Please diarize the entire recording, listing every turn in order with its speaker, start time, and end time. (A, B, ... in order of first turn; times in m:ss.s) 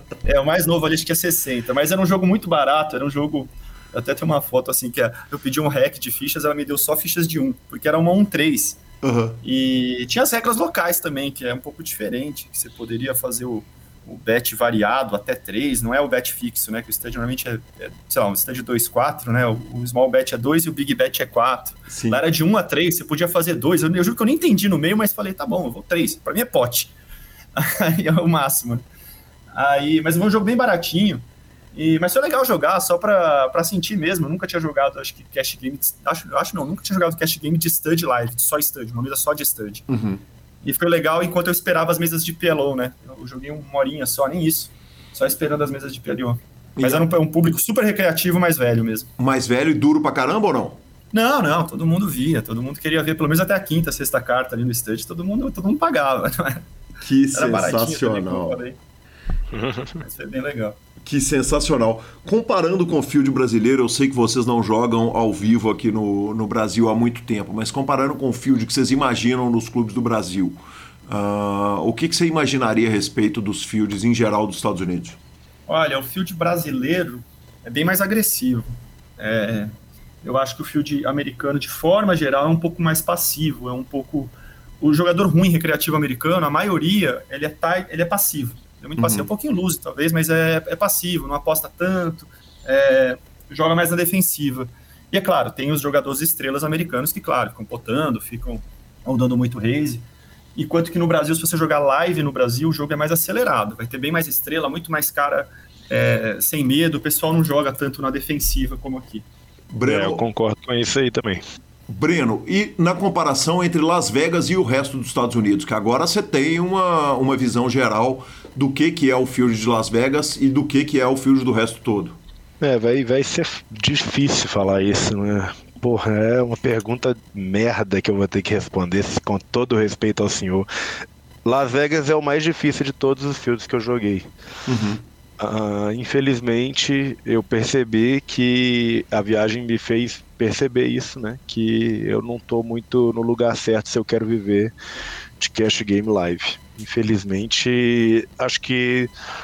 0:00.2-0:08.8 A
0:09.0-0:09.4 B
0:09.4-0:26.9 A
0:21.9-0:22.2 B
0:27.6-0:28.8 A
0:29.5-0:31.2 A
0:31.7-0:39.8 A
0:39.9-0:40.2 B
0:40.6-0:49.1 A
0:46.8-0:47.1 B
0:49.2-0:50.8 B
0:51.1-0:56.6 A
0:57.0-0:58.6 B
0:57.3-0:58.8 A
0:59.5-1:00.0 C
1:00.0-1:00.8 A
1:01.0-1:15.2 B
1:15.7-1:19.7 A
1:20.2-1:40.0 A
1:29.0-1:29.3 B
1:40.6-1:49.2 A
1:49.7-1:50.2 B
1:49.8-1:51.4 C
1:51.9-2:02.2 B
2:02.6-2:10.7 C
2:11.4-2:14.3 C
2:14.7-2:15.0 B
2:15.4-2:24.7 C
2:25.4-2:29.1 C